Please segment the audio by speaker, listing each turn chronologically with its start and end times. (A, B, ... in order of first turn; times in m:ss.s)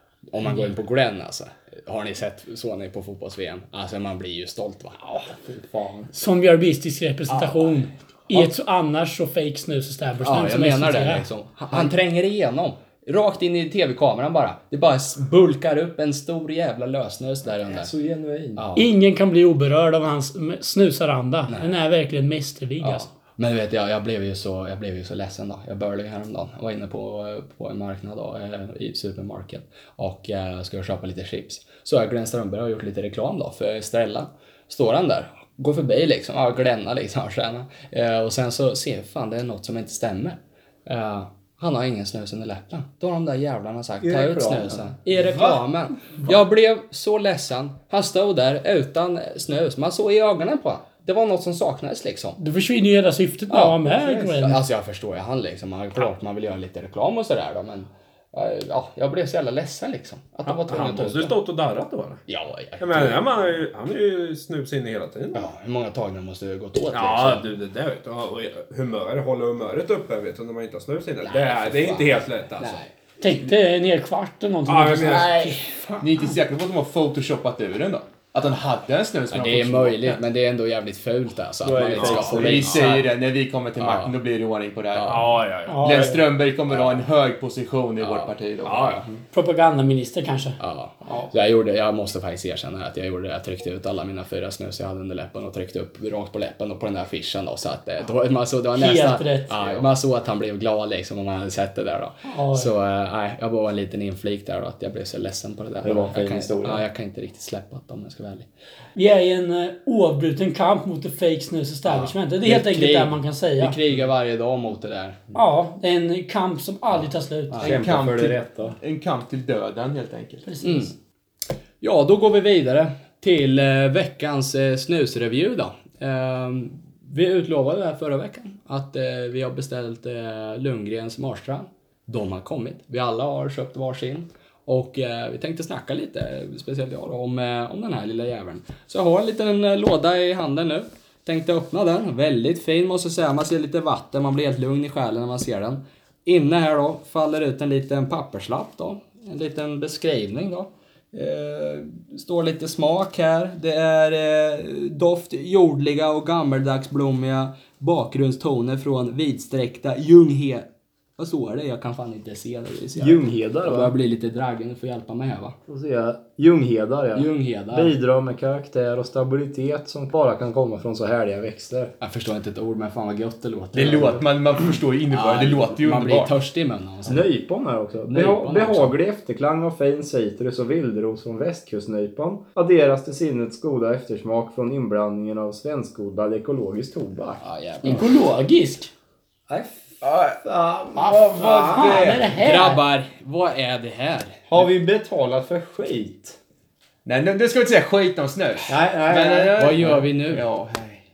0:00.3-0:05.1 A
0:05.4-0:06.1 B
0:06.1-0:11.3 C
0:10.2-0:17.9 A
0:17.7-0:18.6 B
0:18.6-0:18.9 A
0:18.8-0:23.1 C
0:21.5-0:21.7 A
0:22.8-0:52.4 A
0:44.0-0:44.9 B
0:52.4-0:54.6 C
0:53.5-1:01.4 A
1:00.4-1:02.2 D
1:02.3-1:03.5 A
1:02.8-1:05.5 D
1:05.3-1:07.5 A
1:06.9-1:12.8 D
1:11.2-1:12.9 A
1:13.2-1:15.7 C
1:14.6-1:15.4 D
1:14.9-1:16.0 A
1:16.0-1:20.2 E
1:19.3-1:23.0 A
1:21.6-1:23.0 B
1:21.9-1:22.4 D
1:22.1-1:29.0 E
1:23.8-1:24.2 A
1:24.9-1:25.3 A
1:25.1-1:26.2 D
1:25.6-1:26.2 C
1:26.7-1:27.0 A
1:28.0-1:29.0 A
1:28.6-1:29.0 D
1:29.3-1:30.6 C
1:30.6-1:48.5 A
1:38.8-1:39.5 C
1:42.3-1:42.7 C
1:45.8-1:46.8 B
1:49.0-1:53.8 C
1:51.8-1:55.2 A
1:55.3-1:57.7 C
1:57.5-1:57.8 A
1:57.6-1:58.8 B
1:57.6-2:00.5 E
2:00.4-2:00.9 C
2:00.6-2:00.9 A
2:01.8-2:40.6 A
2:41.2-2:45.6 A
2:43.0-2:44.0 B
2:45.7-2:51.9 B
2:47.1-2:47.9 A
2:52.0-2:57.3 A
2:53.7-2:56.3 E
2:57.1-3:07.4 B
2:58.1-2:59.0 A
3:07.4-3:08.2 A
3:07.8-3:08.9 C
3:09.5-3:12.2 B
3:10.0-3:10.4 E
3:10.9-3:12.3 E
3:11.3-3:12.8 C
3:12.3-3:14.4 A
3:14.5-3:16.4 B
3:17.0-3:21.0 E
3:18.7-3:19.7 B
3:19.6-3:20.4 A